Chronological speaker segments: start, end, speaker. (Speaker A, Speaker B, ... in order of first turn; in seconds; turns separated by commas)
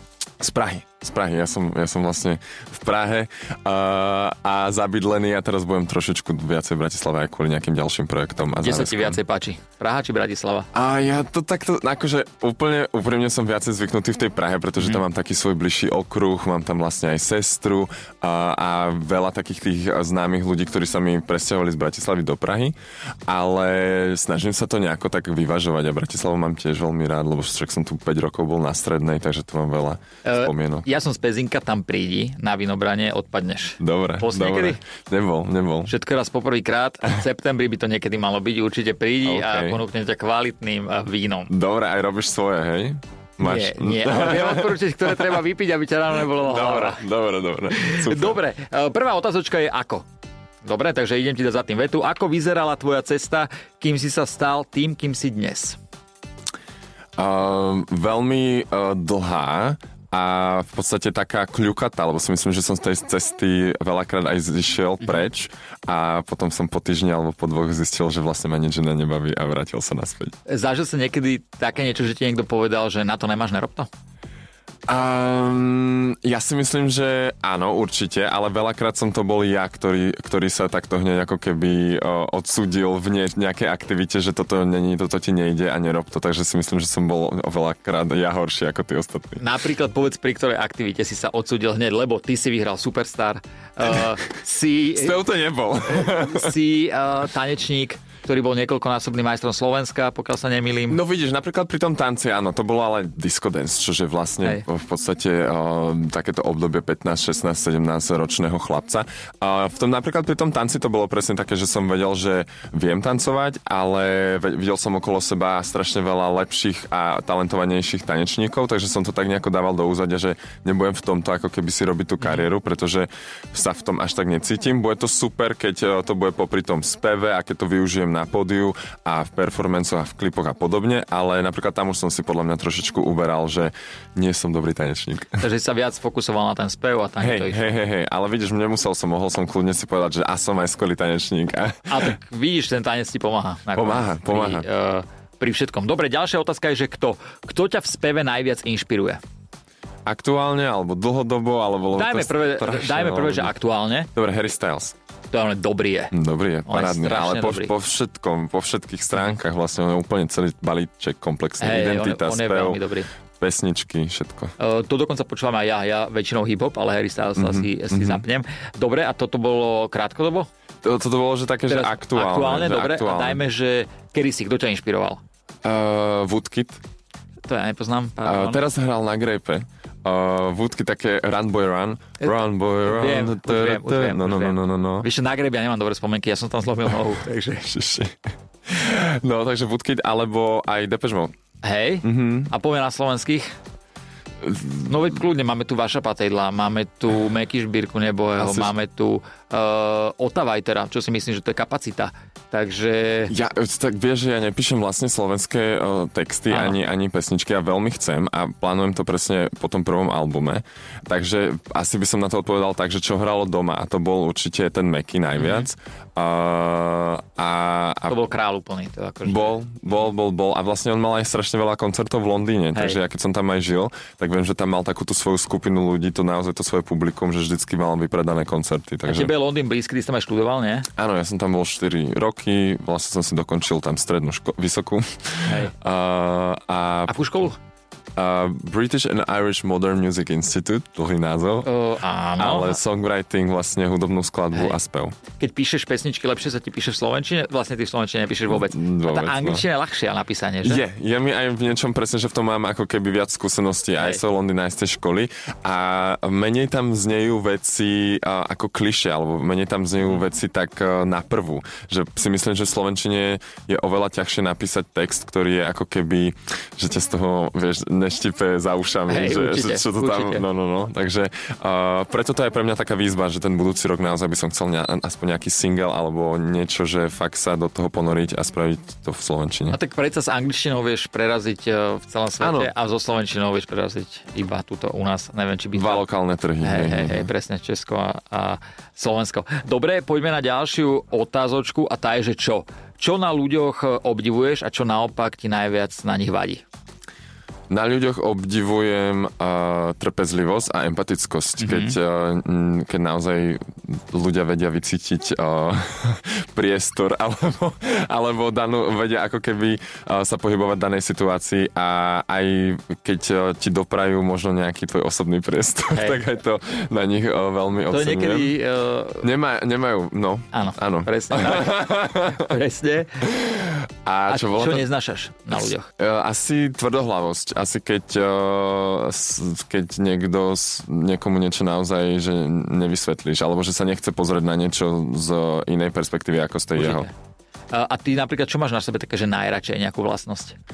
Speaker A: 0.4-9.2, Speaker B: 8.6-10.7, Speaker A: 10.7-22.8, Speaker A: 23.3-30.9, Speaker B: 30.2-34.8, Speaker A: 33.8-35.9, Speaker B: 35.9-41.5, Speaker A: 39.2-39.8, Speaker A: 41.5-45.3, Speaker B: 43.4-47.0, Speaker A: 46.4-48.4, Speaker B: 47.8-50.1, Speaker B: 50.6-55.8, Speaker A: 57.2-70.3, Speaker B: 70.5-73.9, Speaker A: 74.9-89.4, Speaker B: 89.4-95.2, Speaker A: 94.9-96.6, Speaker B: 95.9-101.0, Speaker A: 100.9-135.4, Speaker B: 122.2-122.5, Speaker B: 135.4-137.6, Speaker A: 137.2-142.1, Speaker B: 141.9-149.2, Speaker A: 143.8-144.7, Speaker A: 150.1-153.5, Speaker B: 151.9-154.1, Speaker A: 154.1-154.9, Speaker B: 155.3-156.1, Speaker A: 156.1-162.8, Speaker B: 156.7-157.7, Speaker B: 161.6-163.1, Speaker A: 163.4-164.5, Speaker B: 164.6-170.5, Speaker A: 167.4-168.2, Speaker A: 170.8-173.4, Speaker B: 171.7-175.2, Speaker A: 175.6-176.8, Speaker B: 177.4-178.6, Speaker A: 178.2-185.1, Speaker B: 182.9-187.7, Speaker A: 187.6-191.3, Speaker B: 191.6-193.5, Speaker A: 192.0-192.5, Speaker A: 194.4-194.9, Speaker B: 194.8-203.3, Speaker A: 198.4-198.7, Speaker A: 203.3-218.2, Speaker B: 206.5-206.8, Speaker B: 215.4-215.7, Speaker B: 218.1-219.6, Speaker A: 219.2-229.3, Speaker B: 229.1-230.9, Speaker A: 230.9-237.2, Speaker B: 235.4-235.7, Speaker B: 237.1-237.6, Speaker A: 238.2-241.7, Speaker B: 241.7-242.8, Speaker A: 242.4-245.2, Speaker B: 245.4-250.8, Speaker A: 248.5-249.7, Speaker A: 250.6-279.8, Speaker B: 254.0-254.2, Speaker B: 269.1-270.4, Speaker B: 279.7-286.0, Speaker A: 282.4-282.7, Speaker A: 285.7-287.3, Speaker B: 286.6-296.6, Speaker A: 297.7-318.6, Speaker B: 301.6-302.0, Speaker B: 315.9-316.2, Speaker B: 317.9-319.3, Speaker A: 319.2-322.5, Speaker B: 320.5-323.3, Speaker A: 323.2-324.9, Speaker B: 324.3-325.9, Speaker A: 326.0-337.1, Speaker B: 336.8-337.1, Speaker B: 337.7-340.6